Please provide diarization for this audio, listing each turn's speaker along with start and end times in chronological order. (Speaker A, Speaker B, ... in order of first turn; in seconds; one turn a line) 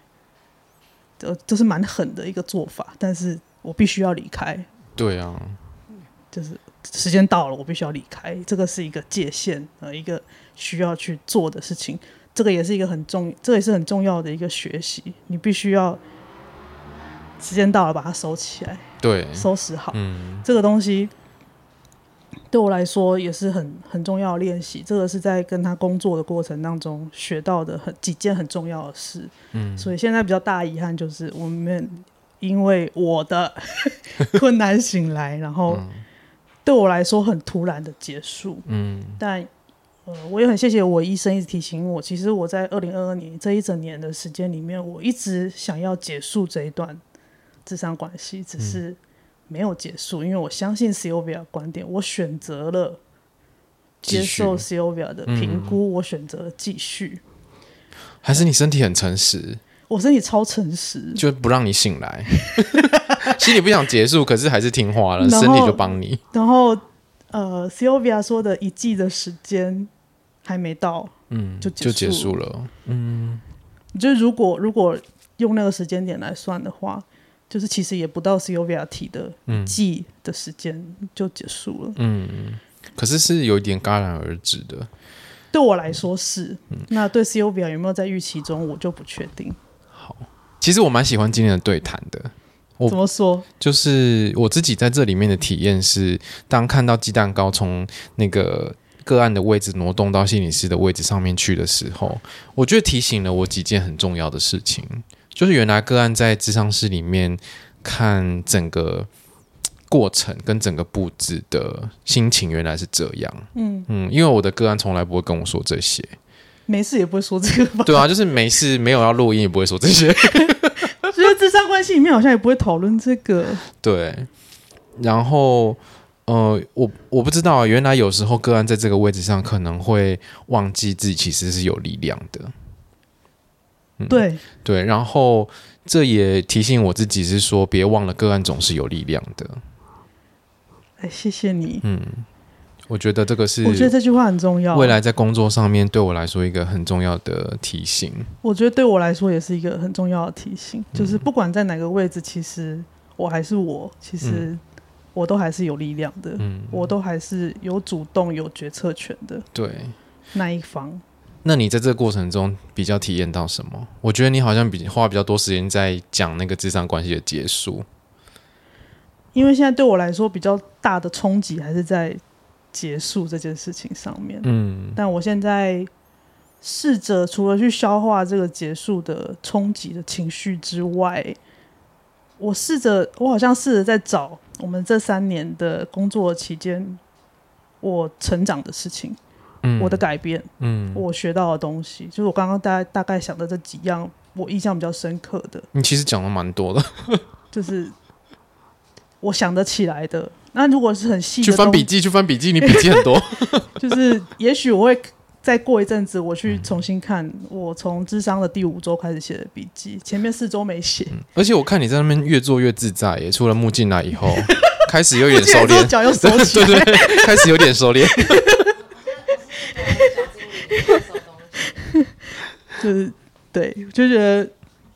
Speaker A: 1.2-4.7
Speaker B: 5.0-5.6
Speaker A: 6.3-16.0
Speaker A: 17.4-21.1
Speaker B: 19.0-20.4
Speaker A: 22.5-35.8
Speaker B: 29.5-29.9
Speaker B: 35.7-36.0
Speaker A: 36.6-38.6
Speaker B: 38.6-39.2
Speaker A: 39.2-39.5
Speaker A: 40.0-47.0
Speaker A: 47.6-53.0
Speaker A: 54.0-57.2
Speaker B: 54.0-54.6
Speaker B: 55.2-55.8
Speaker B: 58.2-59.6
Speaker A: 59.9-61.2
Speaker B: 61.1-66.2
Speaker A: 62.5-63.3
Speaker A: 65.2-69.9
Speaker A: 70.4-72.3
Speaker B: 71.3-73.4
Speaker A: 73.9-82.0
Speaker B: 79.5-79.8
Speaker B: 82.0-84.9
Speaker A: 85.5-89.6
Speaker B: 89.9-93.0
Speaker A: 92.9-93.5
Speaker B: 93.6-109.1
Speaker B: 109.9-116.2
Speaker A: 113.5-113.9
Speaker A: 116.7-118.1
Speaker B: 117.8-120.9
Speaker A: 120.4-123.6
Speaker B: 123.7-124.3
Speaker B: 125.0-132.5
Speaker B: 134.0-139.6
Speaker A: 134.1-134.4
Speaker A: 141.0-141.8
Speaker B: 141.8-142.3
Speaker B: 142.9-143.9
Speaker A: 143.6-144.9
Speaker B: 144.7-148.3
Speaker A: 148.4-154.6
Speaker B: 150.9-151.2
Speaker B: 154.2-154.5
Speaker A: 155.1-159.4
Speaker B: 156.4-156.9
Speaker B: 159.5-159.9
Speaker A: 160.3-161.0
Speaker B: 161.4-167.8
Speaker A: 169.3-172.2
Speaker A: 172.7-175.9
Speaker B: 174.4-175.0
Speaker A: 176.6-181.4
Speaker A: 182.4-187.0
Speaker A: 187.8-189.2
Speaker B: 189.6-190.0
Speaker A: 189.8-195.7
Speaker B: 190.6-191.0
Speaker B: 195.7-197.2
Speaker A: 197.5-197.9
Speaker A: 199.2-201.9
Speaker B: 201.4-203.7
Speaker A: 202.6-203.0
Speaker A: 203.8-211.2
Speaker B: 211.1-218.7
Speaker A: 215.3-218.7
Speaker C: 218.7-221.8
Speaker A: 219.8-220.1
Speaker A: 221.8-222.1
Speaker A: 222.8-224.5